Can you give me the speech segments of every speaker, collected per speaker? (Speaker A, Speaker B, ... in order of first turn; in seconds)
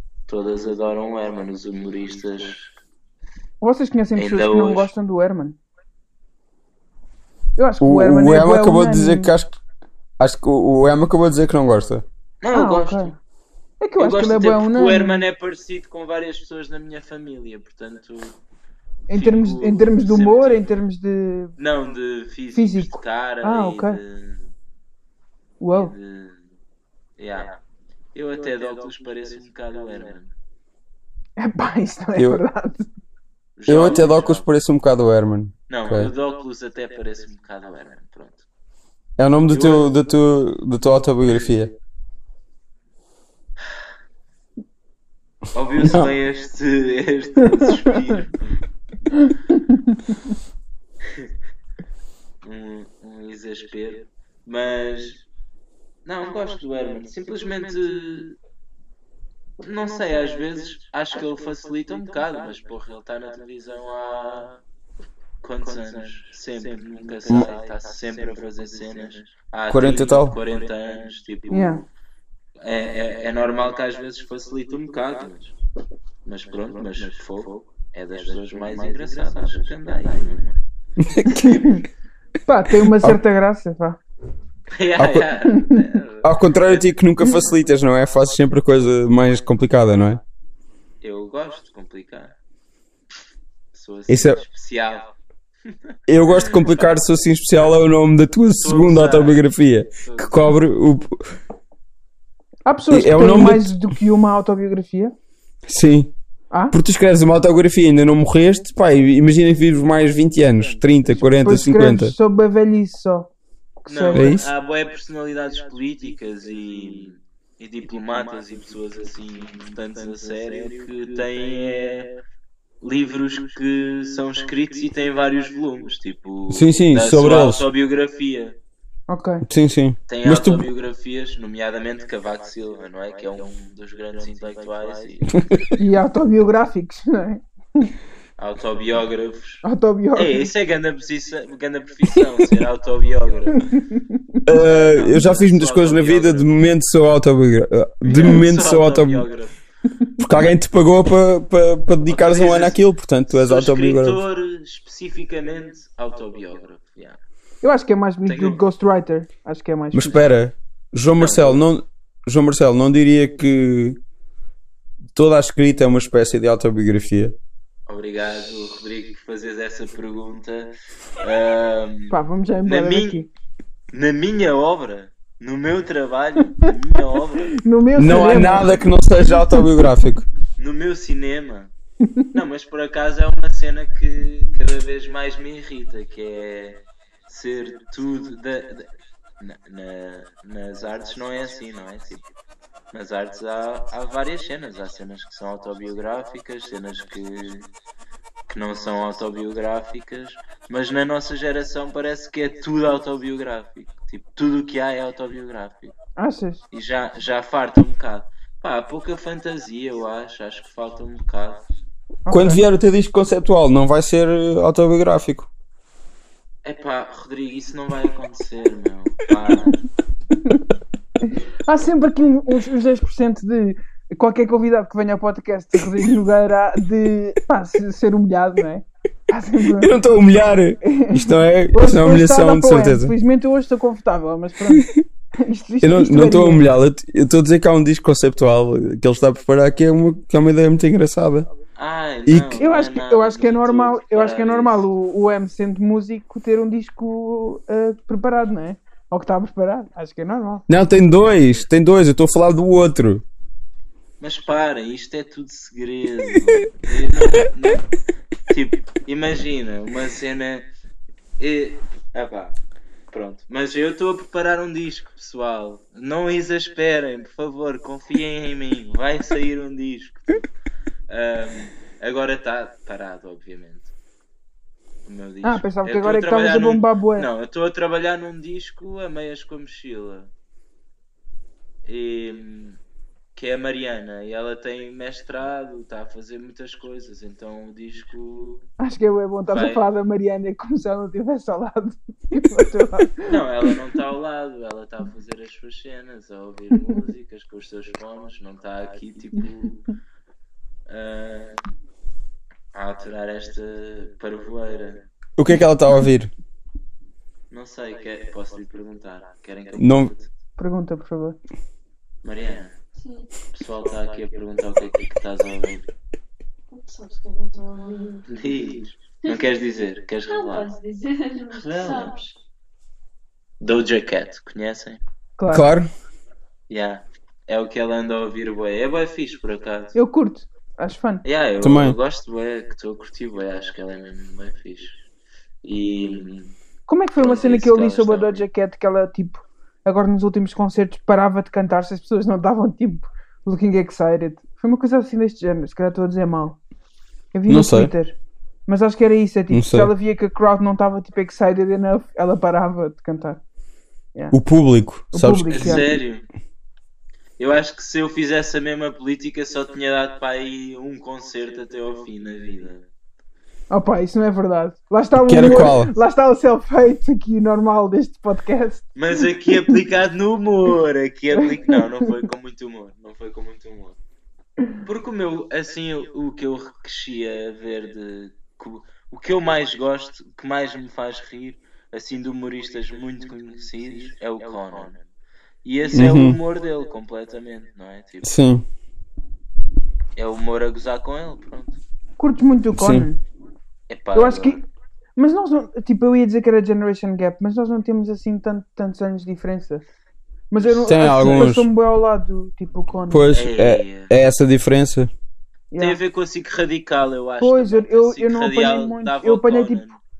Speaker A: 0.3-2.7, 4.2-4.9, 12.4-13.2, 14.0-18.4, 19.1-20.7, 21.6-24.5, 25.7-26.4, 27.2-27.6, 28.1-30.3, 33.6-34.5, 35.7-38.4, 39.5-39.9, 45.5-48.6, 52.4-55.2, 56.1-58.4, 59.6-64.6, 65.4-71.8, 72.6-75.5, 76.2-80.6, 84.7-86.9, 91.0-92.3, 93.7-95.1, 95.7-97.0, 98.6-99.5, 100.0-100.5, 113.9-122.1, 122.8-128.6, 130.1-135.4, 138.4-139.6, 140.2-143.8, 144.6-146.5, 148.0-149.6, 152.1-157.2, 158.2-158.6, 161.2-161.6, 167.9-173.3, 173.9-177.6, 180.6-181.7, 182.3-188.9, 189.4-192.2, 192.9-197.7, 198.5-205.9, 206.7-211.6, 216.6-219.8, 241.8-244.9, 254.2-257.9, 258.5-260.7, 261.4-262.6, 263.1-270.4, 271.1-273.9, 275.1-280.3, 281.9-282.8, 283.4-288.7, 289.5-289.9, 293.2-299.9, 300.9-301.6, 302.7-305.0, 307.5-310.3, 312.2-312.7, 313.5-315.9, 318.3-320.8, 321.5-322.3, 323.6-325.0, 326.7-330.0, 331.2-335.0, 335.6-336.5, 337.2-338.4, 355.5-356.3, 357.4-362.9, 369.0-374.0, 374.8-385.0, 385.6-388.4, 390.2-391.8, 393.9-394.6, 400.6-401.5, 403.3-404.1, 405.8-410.0
Speaker B: 3.6-5.6, 7.6-9.3, 12.5-13.2, 13.8-15.2, 19.1-21.5, 22.6-24.0, 25.6-25.9, 31.4-32.9, 49.1-50.2, 71.5-71.8, 81.3-81.8, 82.5-84.0, 85.5-85.8, 102.7-105.2, 106.5-106.8, 111.4-113.3, 113.8-114.4, 129.1-129.4, 135.8-137.9, 139.6-140.5, 143.7-144.4, 157.6-160.2, 172.1-173.3, 177.5-178.9, 182.0-182.3, 206.2-206.6, 212.3-212.6, 221.7-229.9, 230.8-236.6, 242.5-250.7, 275.4-277.3, 288.8-293.3, 310.6-311.4, 325.4-325.7, 329.9-331.2, 336.9-346.6, 347.3-353.4, 355.1-355.9, 363.7-368.9, 371.4-371.8, 392.2-393.2, 394.1-394.6, 395.2-399.8, 400.5-403.3, 405.7-406.0, 407.4-409.8
Speaker C: 7.8-9.6, 10.2-12.1, 32.1-32.4, 33.7-36.1, 39.2-41.7, 45.8-46.1, 69.7-70.4, 81.0-81.7, 82.8-83.2, 85.0-85.3, 86.2-90.2, 94.1-94.4, 96.1-101.2, 102.9-103.7, 105.7-106.1, 106.7-112.1, 114.1-114.5, 126.5-127.7, 129.5-130.7, 135.3-135.6, 144.5-149.3, 150.2-154.2, 159.9-164.0, 165.2-167.3, 178.0-180.2, 212.3-215.5, 229.8-233.1, 235.8-241.5, 242.3-242.6, 250.7-253.2, 305.4-306.3, 309.8-310.1, 325.5-325.9, 331.6-332.0, 347.5-347.9, 349.5-349.9, 354.3-355.9, 365.3-365.9, 385.9-386.4, 388.2-388.6, 392.7-393.1, 400.9-401.7, 403.1-405.1
Speaker D: 313.0-313.3, 316.7-318.3, 320.3-322.4